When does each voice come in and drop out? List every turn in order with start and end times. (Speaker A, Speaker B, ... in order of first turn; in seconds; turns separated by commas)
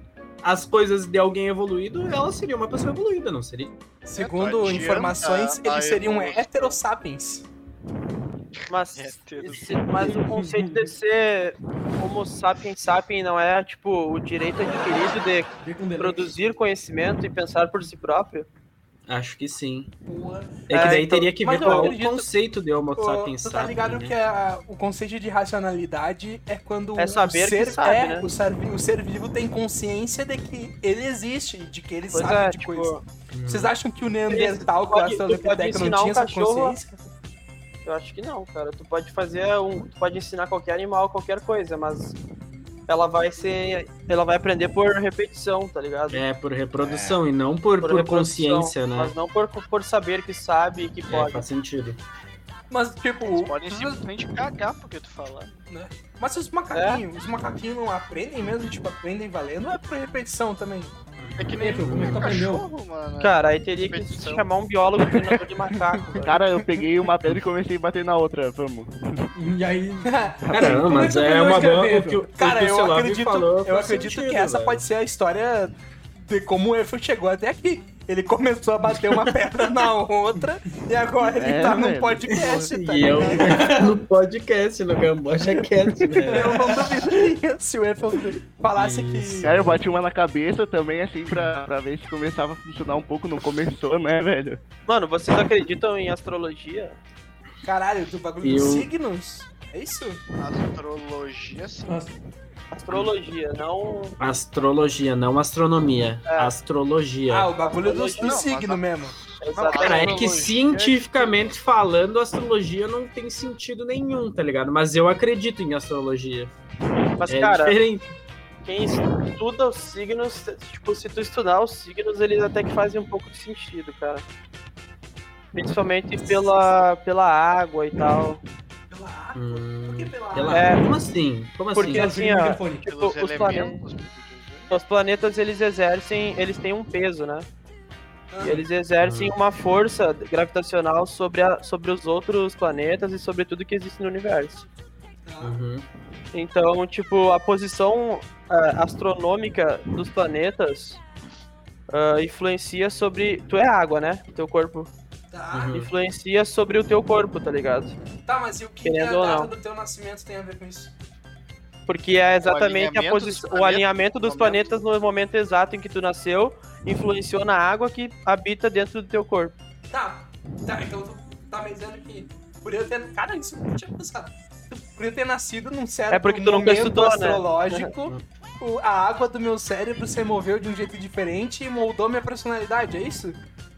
Speaker A: 0.4-3.8, Speaker B: 4.0-7.5, Speaker C: 4.2-6.8, Speaker D: 8.7-18.5, Speaker C: 8.9-10.2, Speaker E: 9.9-10.9, Speaker E: 15.6-16.3, Speaker A: 19.1-19.9, Speaker B: 20.1-22.3, Speaker A: 20.7-24.2, Speaker D: 20.7-22.0, Speaker B: 23.0-32.9, Speaker D: 27.0-28.3, Speaker D: 32.1-33.0, Speaker A: 33.3-33.7, Speaker B: 33.5-37.0, Speaker D: 34.3-36.8, Speaker D: 37.9-42.2, Speaker D: 42.9-46.2, Speaker A: 46.1-49.1, Speaker D: 47.8-51.5, Speaker A: 51.1-52.0, Speaker B: 52.7-53.9, Speaker C: 53.2-55.6, Speaker B: 55.7-60.9, Speaker D: 56.7-57.0, Speaker A: 61.2-62.3, Speaker C: 61.4-64.5, Speaker E: 61.6-62.7, Speaker D: 63.2-66.3, Speaker F: 65.1-65.4, Speaker F: 66.2-69.3, Speaker E: 69.3-72.3, Speaker B: 70.0-83.6, Speaker A: 70.5-74.9, Speaker F: 81.3-82.7, Speaker A: 82.3-86.6, Speaker E: 83.3-84.0, Speaker E: 86.2-87.1, Speaker B: 86.3-89.6, Speaker A: 88.8-89.8, Speaker F: 89.4-94.6, Speaker D: 94.9-97.0, Speaker B: 97.6-100.2, Speaker A: 98.4-98.9, Speaker C: 100.4-101.9, Speaker E: 101.9-102.1, Speaker D: 102.7-104.2, Speaker A: 104.2-107.5, Speaker D: 106.3-106.5, Speaker B: 107.3-109.2, Speaker D: 107.6-108.4, Speaker C: 108.2-108.8, Speaker D: 109.4-110.5, Speaker C: 109.5-111.5, Speaker A: 109.7-116.5, Speaker D: 117.2-117.8, Speaker A: 117.3-118.1, Speaker D: 118.6-124.2, Speaker D: 125.5-128.4, Speaker B: 128.9-130.7, Speaker A: 129.3-132.1, Speaker D: 130.5-130.8, Speaker D: 131.8-133.8, Speaker E: 131.8-132.9, Speaker C: 132.8-134.7, Speaker D: 134.7-137.5, Speaker B: 138.3-138.6, Speaker D: 138.4-144.7, Speaker A: 139.0-139.4, Speaker B: 145.3-145.6, Speaker A: 145.4-145.8, Speaker D: 146.3-151.0, Speaker D: 151.9-154.9, Speaker B: 155.3-155.8, Speaker A: 155.5-155.9, Speaker D: 155.7-157.9, Speaker B: 158.3-160.9, Speaker D: 158.8-159.5, Speaker D: 161.9-169.6, Speaker C: 162.4-164.8, Speaker B: 169.9-183.4, Speaker D: 176.1-177.9